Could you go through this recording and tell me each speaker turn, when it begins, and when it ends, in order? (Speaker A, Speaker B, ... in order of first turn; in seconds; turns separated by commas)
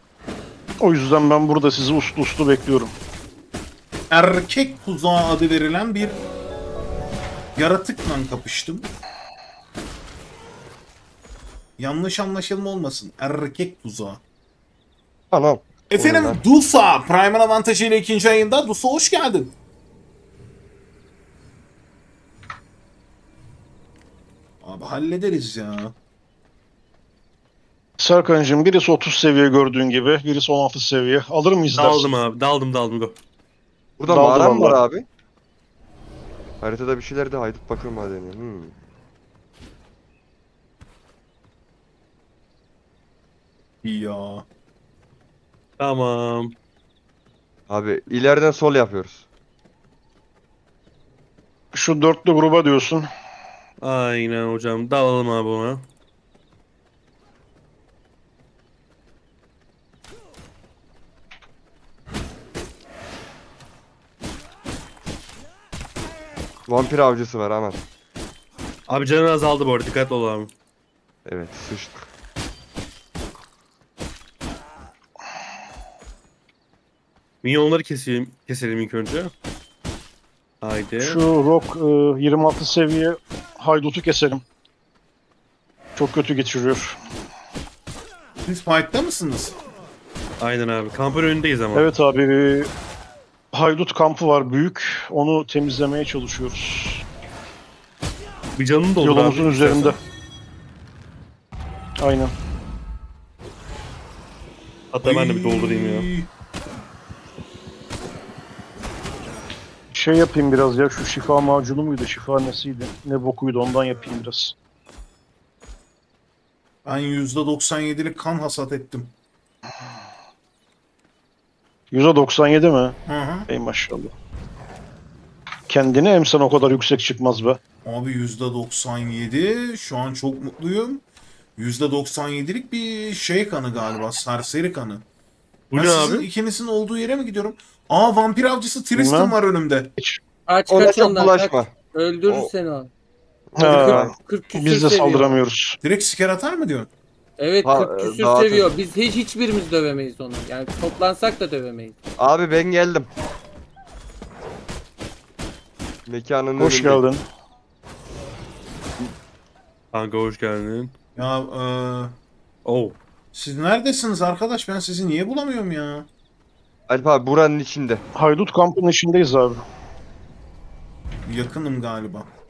Speaker A: 0.8-2.9, Speaker B: 4.1-6.2, Speaker B: 7.5-8.9, Speaker B: 11.8-14.2, Speaker C: 15.3-16.4, Speaker B: 15.9-19.5, Speaker B: 24.6-25.9, Speaker A: 28.0-32.1, Speaker D: 31.7-33.1, Speaker C: 34.0-35.0, Speaker A: 34.1-34.8, Speaker C: 36.6-38.8, Speaker B: 43.8-44.4, Speaker D: 45.8-46.5, Speaker C: 47.7-49.2, Speaker A: 51.7-53.1, Speaker D: 53.8-55.8, Speaker C: 66.7-67.8, Speaker D: 68.9-70.5, Speaker C: 71.2-72.1, Speaker D: 77.4-79.3, Speaker D: 80.6-81.2, Speaker A: 81.0-84.4, Speaker A: 86.0-87.0, Speaker B: 88.4-89.6, Speaker D: 90.4-91.9, Speaker A: 91.7-92.7, Speaker A: 93.5-97.0, Speaker D: 98.5-100.0, Speaker A: 99.0-100.0, Speaker A: 102.0-102.3, Speaker D: 104.9-106.1, Speaker B: 105.0-106.3, Speaker A: 109.9-114.5, Speaker B: 116.8-119.1, Speaker A: 121.9-124.1, Speaker B: 123.0-123.5, Speaker A: 125.7-127.6, Speaker B: 127.8-131.0, Speaker B: 131.6-135.0, Speaker D: 135.7-136.3, Speaker B: 135.7-139.9, Speaker A: 138.9-139.3, Speaker E: 140.5-142.9, Speaker C: 140.7-141.7, Speaker C: 143.5-144.1, Speaker A: 143.6-145.8, Speaker E: 143.6-145.4, Speaker B: 145.8-146.9, Speaker E: 147.4-152.0, Speaker C: 147.6-148.7, Speaker C: 152.2-153.1, Speaker C: 156.1-157.0, Speaker A: 156.6-157.2, Speaker D: 159.9-160.9, Speaker B: 161.2-162.1, Speaker D: 162.6-163.0, Speaker B: 163.3-166.1, Speaker C: 166.9-168.0, Speaker A: 168.2-169.6, Speaker B: 171.3-172.3